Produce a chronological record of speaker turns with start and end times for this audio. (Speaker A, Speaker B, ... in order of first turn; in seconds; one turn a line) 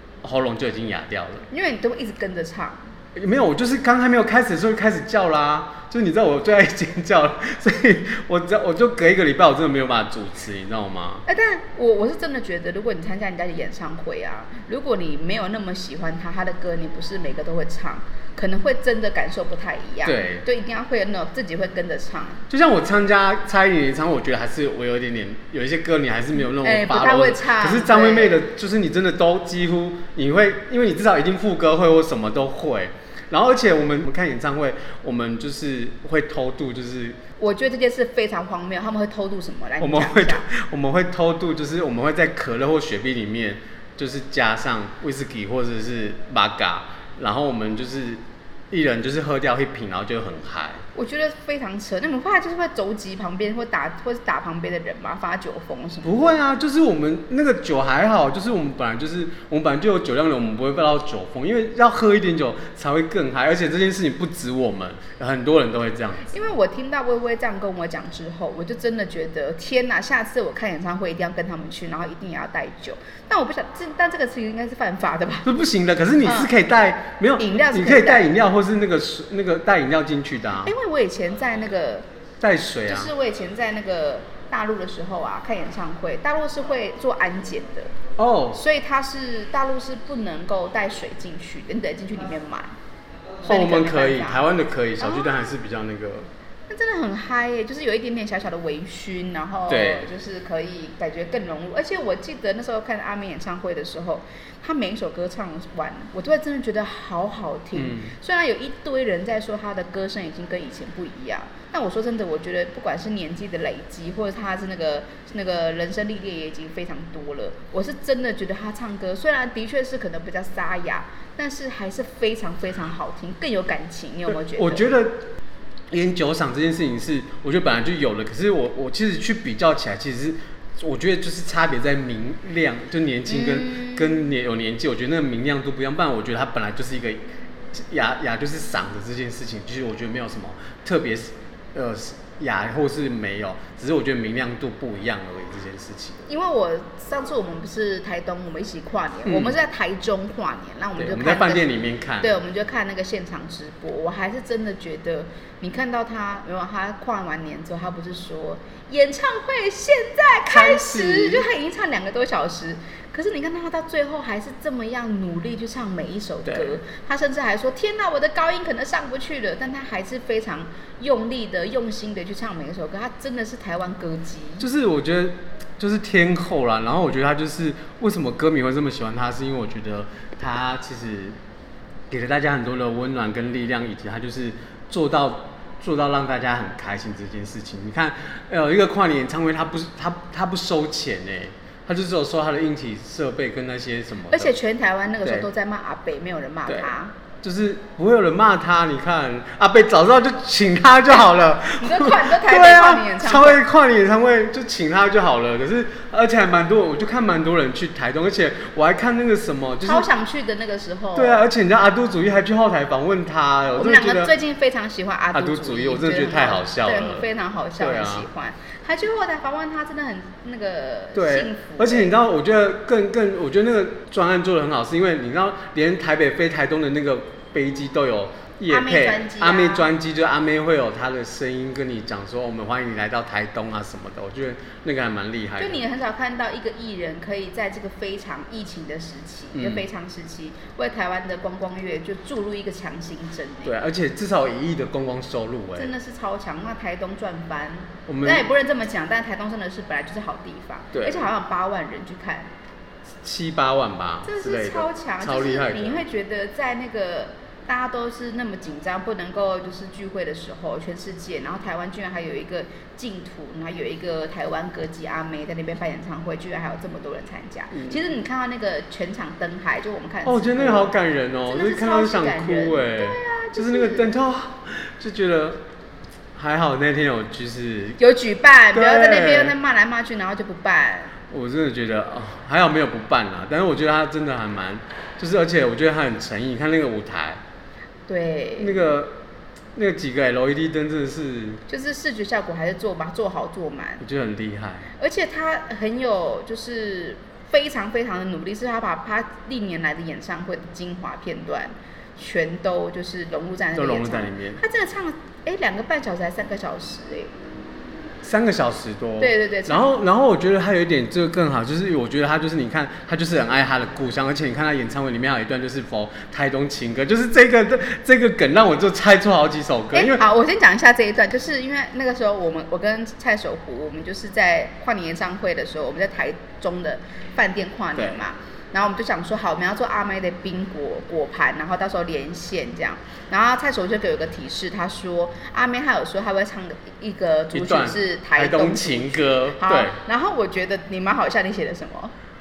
Speaker A: 0.2-1.5
Speaker B: 1.5-2.8
Speaker A: 3.1-11.2
Speaker B: 11.3-22.4
Speaker A: 20.0-20.4
Speaker A: 22.5-37.2
Speaker B: 26.4-28.4
Speaker B: 37.4-40.5
Speaker A: 39.8-50.8
Speaker B: 50.9-56.2
Speaker A: 56.0-66.3
Speaker B: 66.3-75.6
Speaker A: 75.4-80.7
Speaker B: 76.2-76.5
Speaker B: 77.4-78.3
Speaker B: 80.6-82.0
Speaker A: 82.4-83.1
Speaker B: 82.9-87.9
Speaker A: 88.2-88.6
Speaker B: 88.5-92.7
Speaker B: 93.4-94.4
Speaker A: 93.4-96.3
Speaker B: 95.0-95.3
Speaker B: 96.7-124.8
Speaker A: 99.7-100.1
Speaker A: 107.7-108.1
Speaker A: 124.5-125.3
Speaker A: 125.9-146.3
Speaker B: 133.3-134.2
Speaker B: 146.3-151.7
Speaker A: 149.2-149.6
Speaker A: 151.0-152.4
Speaker B: 152.2-174.7
Speaker A: 160.5-161.5
Speaker A: 166.5-166.8
Speaker A: 174.6-181.3
Speaker A: 182.1-194.5
Speaker B: 194.3-197.1
Speaker A: 197.4-210.1
Speaker B: 201.8-203.6
Speaker B: 209.8-211.4
Speaker A: 211.2-214.3
Speaker B: 213.8-222.2
Speaker A: 215.3-218.3
Speaker A: 221.1-235.8
Speaker B: 228.7-229.9
Speaker B: 235.6-243.8
Speaker A: 239.5-239.9
Speaker A: 243.6-245.9
Speaker B: 245.8-252.5
Speaker A: 248.1-248.4
Speaker A: 250.9-251.3
Speaker A: 253.2-256.0
Speaker B: 254.2-270.9
Speaker A: 267.7-268.0
Speaker A: 270.2-275.6
Speaker B: 271.4-274.1
Speaker A: 276.3-278.0
Speaker B: 278.0-281.2
Speaker A: 278.7-279.5
Speaker A: 281.3-287.4
Speaker B: 288.1-288.9
Speaker A: 288.6-289.2
Speaker A: 289.7-291.6
Speaker B: 291.7-294.0
Speaker A: 294.0-294.9
Speaker B: 295.0-307.3
Speaker A: 303.7-304.6
Speaker A: 308.2-320.2
Speaker B: 309.2-309.9
Speaker B: 319.9-342.1
Speaker A: 327.9-328.2
Speaker A: 337.5-340.0